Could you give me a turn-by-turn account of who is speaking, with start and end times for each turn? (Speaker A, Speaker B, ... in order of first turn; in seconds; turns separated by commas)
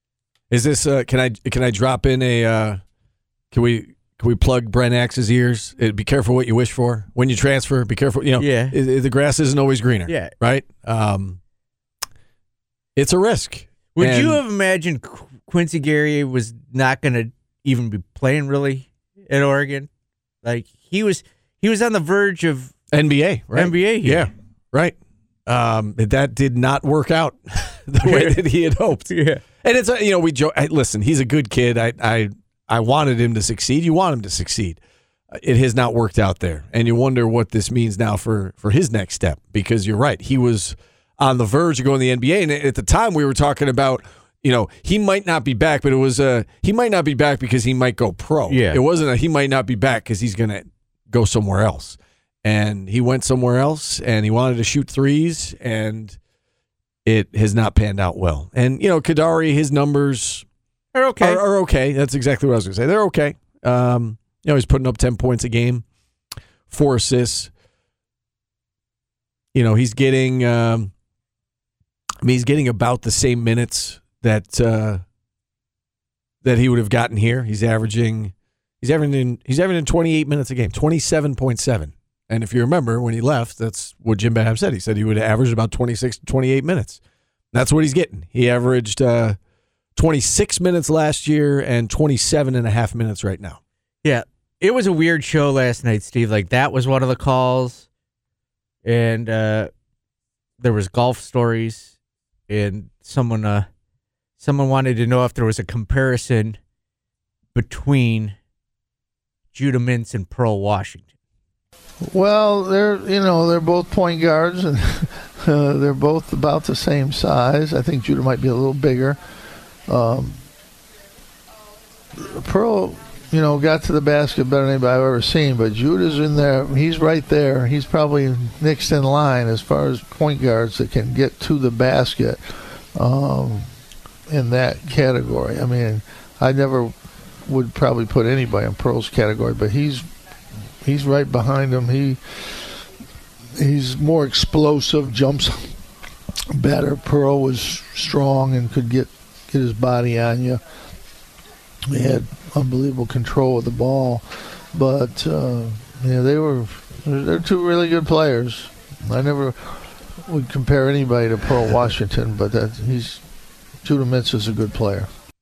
Speaker A: 0.5-2.8, Speaker A: 3.5-11.4, Speaker B: 8.4-8.8, Speaker B: 10.1-10.3, Speaker A: 13.0-14.4, Speaker B: 14.0-19.9, Speaker B: 20.4-22.7, Speaker A: 22.9-24.9, Speaker B: 23.5-24.3, Speaker A: 25.5-34.8, Speaker B: 28.0-28.4, Speaker B: 29.1-29.4, Speaker A: 35.3-56.2, Speaker B: 48.5-48.8, Speaker A: 57.1-60.5, Speaker B: 61.0-61.4, Speaker A: 61.2-65.8, Speaker A: 66.7-67.5, Speaker A: 69.5-70.9, Speaker A: 72.2-75.0, Speaker A: 76.4-87.0, Speaker A: 87.5-89.4, Speaker A: 90.0-93.6, Speaker B: 94.0-97.9, Speaker B: 98.8-99.7, Speaker B: 100.6-101.9, Speaker B: 102.5-103.7, Speaker B: 104.4-106.6, Speaker B: 107.5-108.4, Speaker B: 109.5-111.1, Speaker C: 112.0-119.2, Speaker C: 119.9-120.4, Speaker C: 122.2-133.7, Speaker C: 134.3-140.1, Speaker C: 140.8-142.8, Speaker C: 143.6-145.8, Speaker C: 146.5-150.6, Speaker C: 151.9-163.2, Speaker C: 163.8-165.1